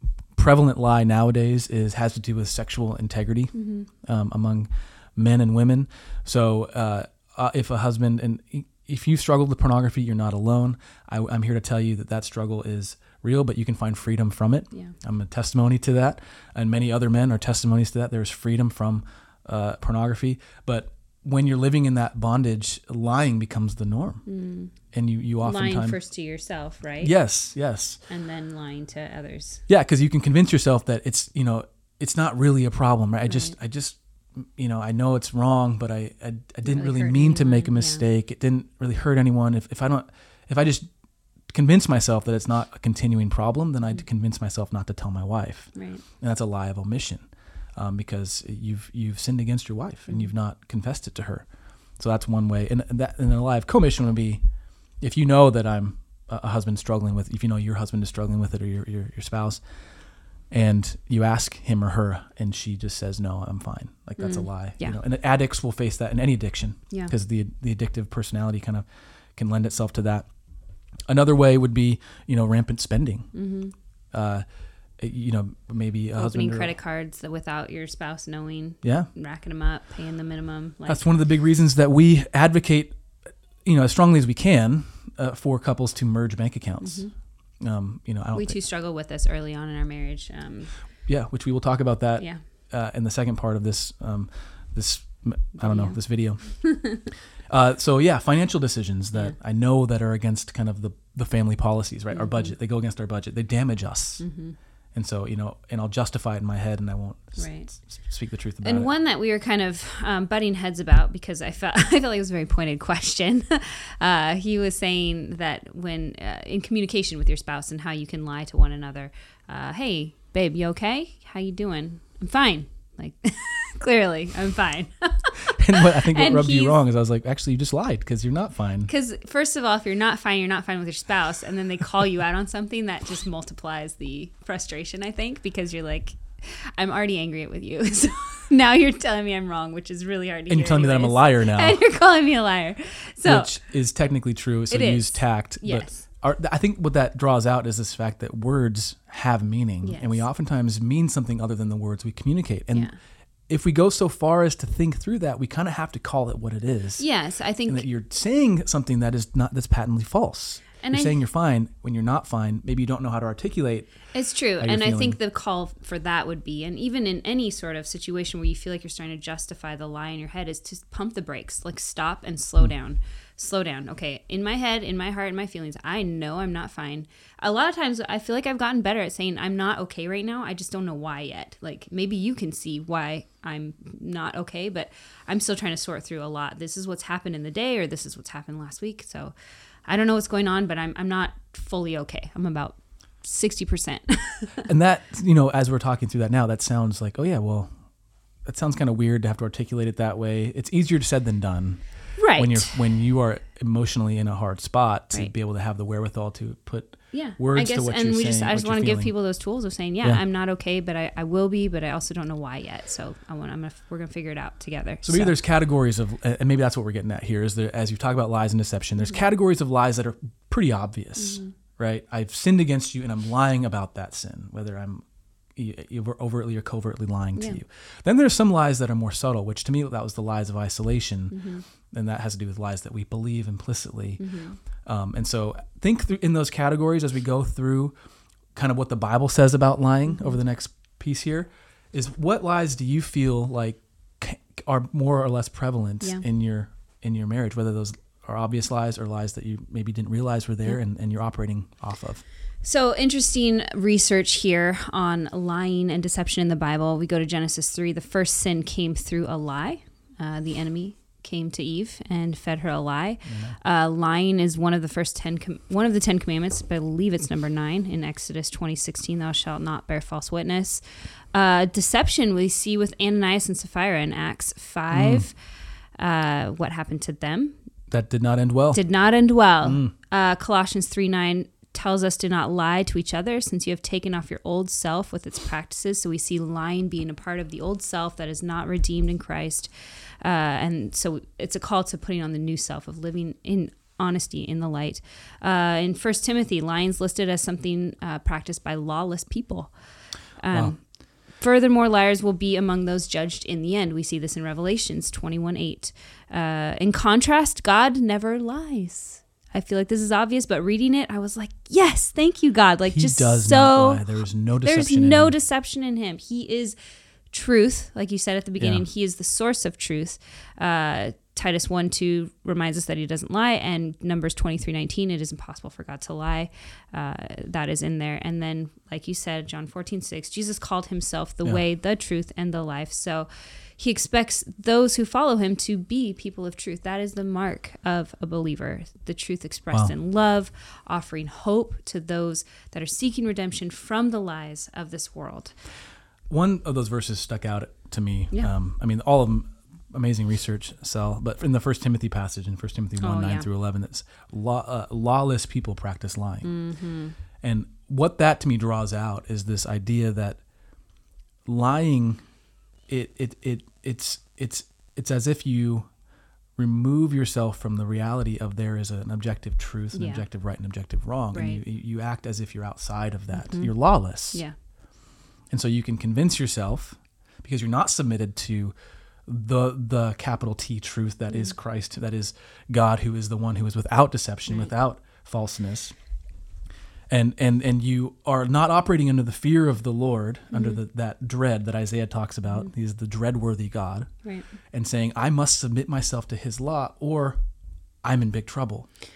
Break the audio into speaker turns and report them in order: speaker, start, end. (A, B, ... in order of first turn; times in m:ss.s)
0:00.4-0:24.2 A
0:03.5-0:03.9 B
0:24.2-0:24.7 B
0:24.9-0:26.0 A
0:25.4-0:27.1 B
0:27.0-0:28.0 A
0:28.1-0:29.6 B
0:29.7-0:40.9 A
0:33.3-0:33.5 B
0:36.6-0:38.0 B
0:41.5-0:54.4 A
0:45.7-0:46.0 B
0:55.0-0:59.6 A
1:00.5-1:10.3 A
1:04.2-1:05.0 B
1:11.1-1:13.3 A
1:13.3-1:13.7 B
1:14.1-1:14.4 A
1:15.0-1:16.7 A
1:16.2-1:21.0 B
1:18.8-1:19.1 A
1:20.8-1:23.0 A
1:23.6-1:27.1 A
1:26.8-1:27.1 B
1:27.6-1:28.6 A
1:28.3-1:30.8 B
1:31.0-1:37.0 A
1:35.6-1:36.0 B
1:36.6-1:37.1 B
1:37.5-1:44.2 A
1:42.1-1:42.5 B
1:44.2-1:44.6 B
1:44.9-1:48.9 A
1:47.4-1:47.7 B
1:48.6-2:06.8 B
2:05.4-2:08.9 A
2:08.9-2:23.5 B
2:20.5-2:21.8 A
2:23.2-2:32.9 A
2:24.7-2:26.0 B
2:29.8-2:30.2 B
2:33.5-2:37.0 A
2:37.0-2:37.8 B
2:37.7-2:44.0 A
2:40.8-2:41.2 B
2:44.1-3:09.3 B
2:44.6-2:45.2 A
3:09.8-3:14.6 B
3:14.6-3:17.8 A
3:18.4-3:29.1 A
3:22.2-3:22.7 B
3:27.1-3:35.3 B
3:35.0-3:45.0 A
3:41.2-3:41.5 B
3:45.6-3:57.9 A
3:47.4-3:47.6 B
3:51.3-3:51.6 B
3:54.2-3:54.6 B
3:58.5-4:12.2 A
4:00.1-4:00.4 B
4:12.6-4:35.4 B
4:23.2-4:23.6 A
4:34.9-4:35.3 A
4:36.0-4:37.6 B
4:37.9-4:38.8 A
4:38.7-4:59.7 B
4:39.6-4:39.9 A
5:00.4-5:14.0 B
5:12.8-5:15.3 A
5:14.6-5:16.8 B
5:17.3-5:45.6 B
5:18.6-5:18.8 A
5:46.3-5:56.5 A
5:53.0-5:53.5 B
5:56.4-5:57.1 B
5:57.4-6:00.4 A
6:01.4-6:02.2 A
6:02.9-6:05.9 A
6:06.6-6:14.4 A
6:09.9-6:10.2 B
6:11.3-6:11.6 B
6:13.3-6:13.7 B
6:15.5-6:18.7 A
6:19.3-6:25.9 A
6:27.1-6:34.1 A
6:30.5-6:30.8 B
6:34.7-6:37.4 A
6:38.0-6:38.9 A